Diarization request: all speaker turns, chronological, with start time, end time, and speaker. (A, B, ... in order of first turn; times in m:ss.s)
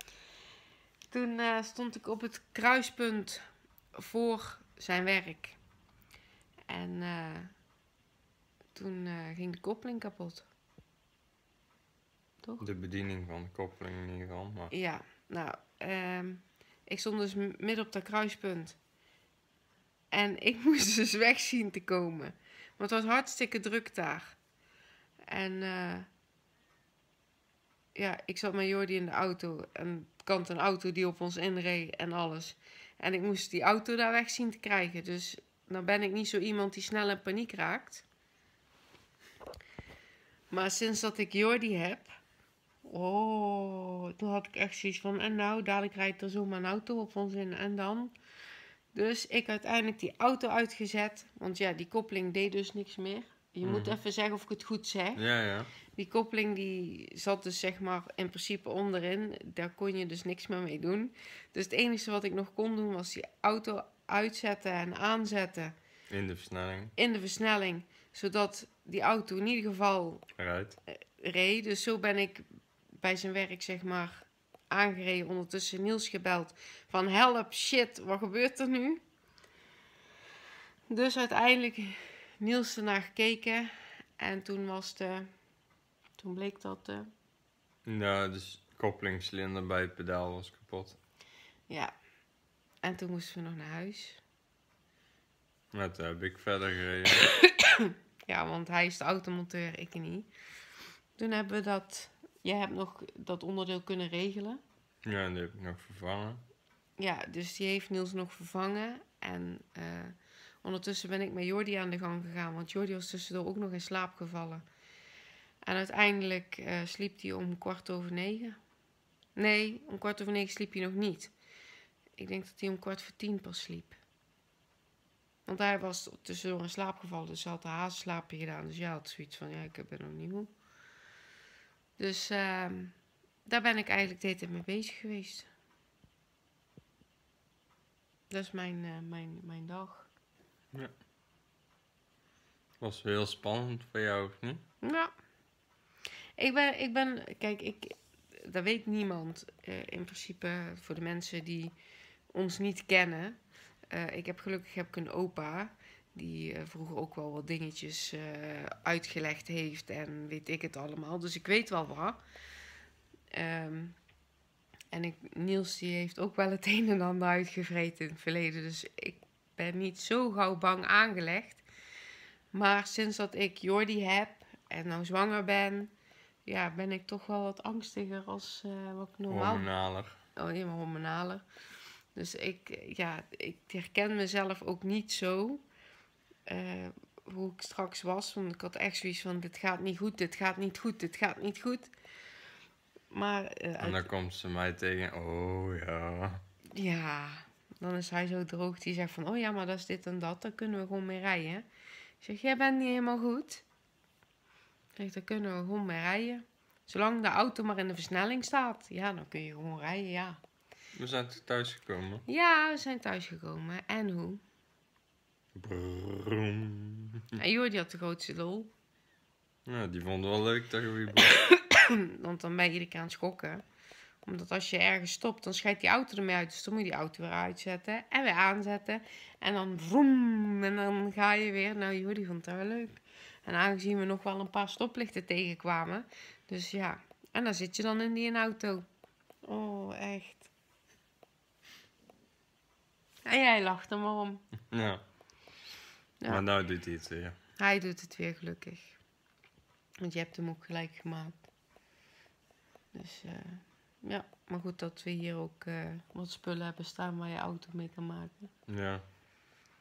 0:01.1-0:05.6 A
0:06.7-0:07.5 A
0:08.7-0:10.5 A
0:12.6-0:14.7 B
0:14.7-0:18.8 A
0:20.1-0:24.4 A
0:25.3-0:26.1 A
0:27.9-0:38.0 A
0:40.5-0:42.2 A
0:42.8-0:48.1 A
0:48.9-0:55.2 A
0:53.6-0:54.0 B
0:55.2-0:55.7 B
0:55.9-1:05.7 A
1:06.1-1:06.9 B
1:07.0-1:10.3 A
1:10.4-1:10.8 B
1:10.9-1:12.5 A
1:13.0-1:19.0 A
1:20.9-1:25.3 A
1:26.2-1:27.1 A
1:27.8-1:31.0 B
1:31.7-1:31.9 A
1:32.8-1:34.2 A
1:35.7-1:37.3 B
1:37.8-1:40.3 A
1:41.2-1:44.6 A
1:45.0-1:46.4 B
1:47.0-1:54.7 A
1:55.6-1:58.6 A
1:59.3-2:01.3 A
2:02.2-2:04.0 A
2:05.4-2:10.5 A
2:12.0-2:15.5 A
2:18.3-2:20.1 A
2:22.8-2:24.6 B
2:24.8-2:25.2 A
2:26.4-2:31.8 A
2:32.3-2:33.4 A
2:33.9-2:42.2 A
2:43.3-2:44.0 A
2:44.9-2:51.6 A
2:52.5-2:55.9 A
2:56.4-3:01.4 A
2:59.3-3:00.1 B
3:02.1-3:05.6 A
3:06.5-3:11.9 A
3:13.1-3:14.1 A
3:13.8-3:16.4 B
3:16.7-3:21.6 A
3:22.2-3:23.6 A
3:24.9-3:30.4 A
3:30.9-3:32.2 B
3:32.2-3:34.4 A
3:35.5-3:37.2 B
3:37.4-3:38.7 A
3:39.6-3:41.4 B
3:41.5-3:43.6 A
3:44.2-3:58.8 A
3:59.4-4:00.5 A
4:03.2-4:04.4 A
4:04.7-4:05.0 B
4:06.2-4:07.4 B
4:07.6-4:09.0 A
4:10.0-4:11.4 A
4:12.9-4:18.5 A
4:18.7-4:19.0 B